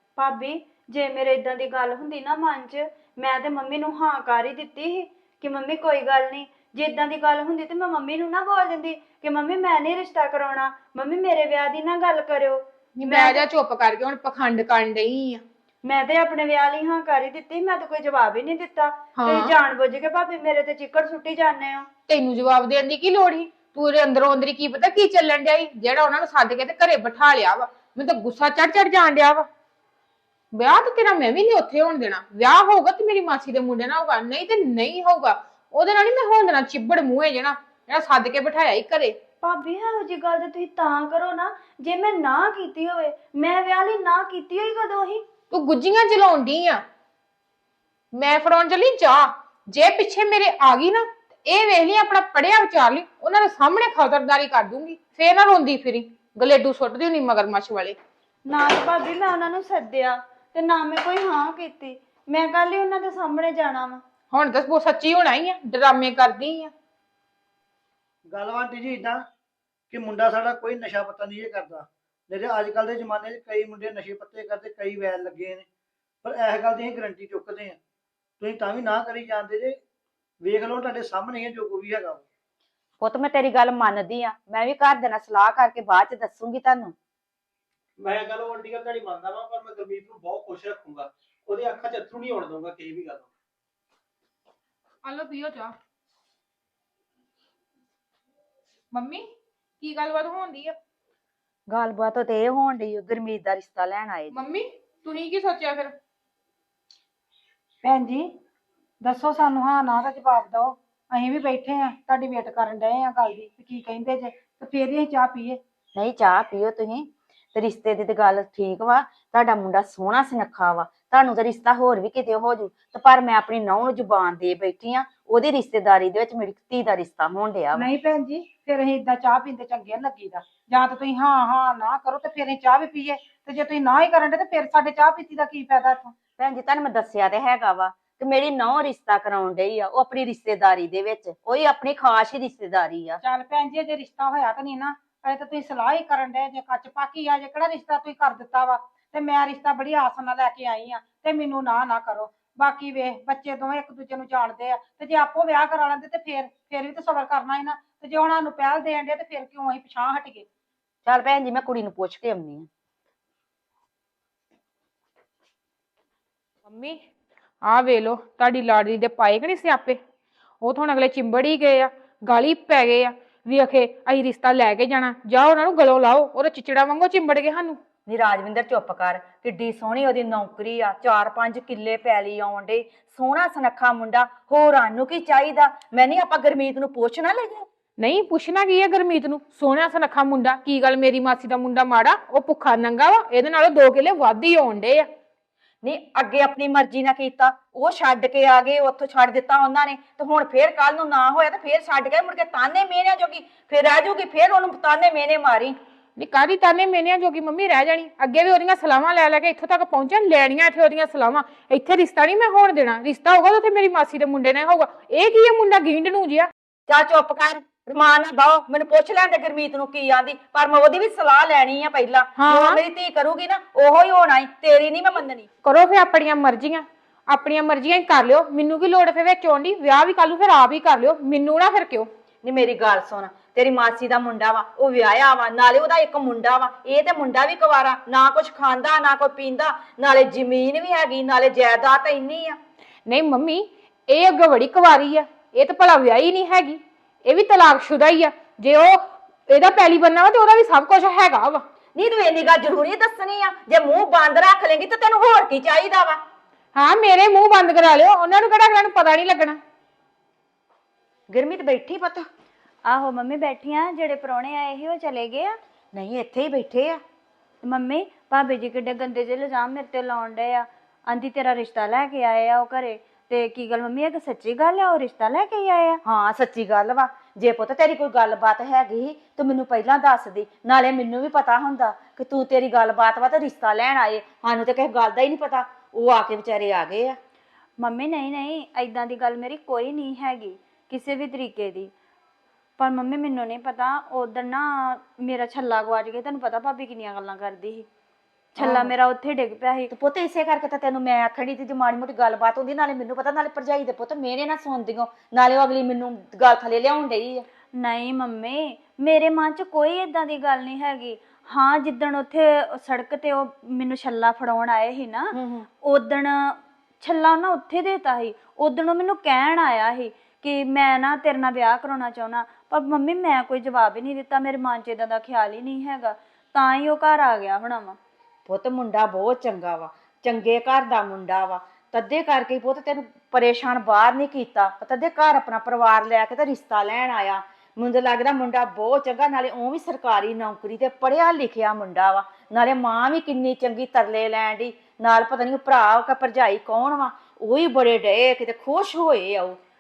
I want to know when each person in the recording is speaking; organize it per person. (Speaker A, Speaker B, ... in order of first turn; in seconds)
Speaker A: 0.2-13.4, 15.8-21.9, 39.4-45.2, 58.5-64.0, 262.9-265.6, 267.6-276.0, 287.8-291.9, 292.8-297.9, 298.6-299.9, 307.8-328.0
Speaker B: 13.0-15.4, 19.2-19.5, 22.1-29.5, 30.5-39.1, 45.5-46.8, 48.2-58.0, 64.3-66.7, 95.0-95.7, 98.9-99.2, 99.8-100.8, 104.3-105.9, 166.7-167.0, 167.7-170.0, 170.6-177.8, 188.0-195.1, 206.2-216.5, 222.4-222.8, 225.6-232.1, 243.1-251.6, 256.8-259.6
Speaker C: 68.3-69.2, 69.9-75.7, 76.2-77.8, 78.4-79.8, 80.4-82.2
Speaker D: 83.0-86.9, 101.7-104.4, 116.0-127.9, 136.4-143.2, 161.1-162.7, 178.1-187.7, 195.8-205.8, 216.9-225.5, 232.4-242.6, 251.9-256.2, 261.3-262.2, 265.9-267.0, 276.0-287.2, 298.6-298.9, 299.9-307.4, 315.3-315.7, 328.5-349.6
Speaker E: 88.0-93.3
Speaker F: 107.8-108.3, 109.0-115.6, 127.8-136.1, 143.2-160.5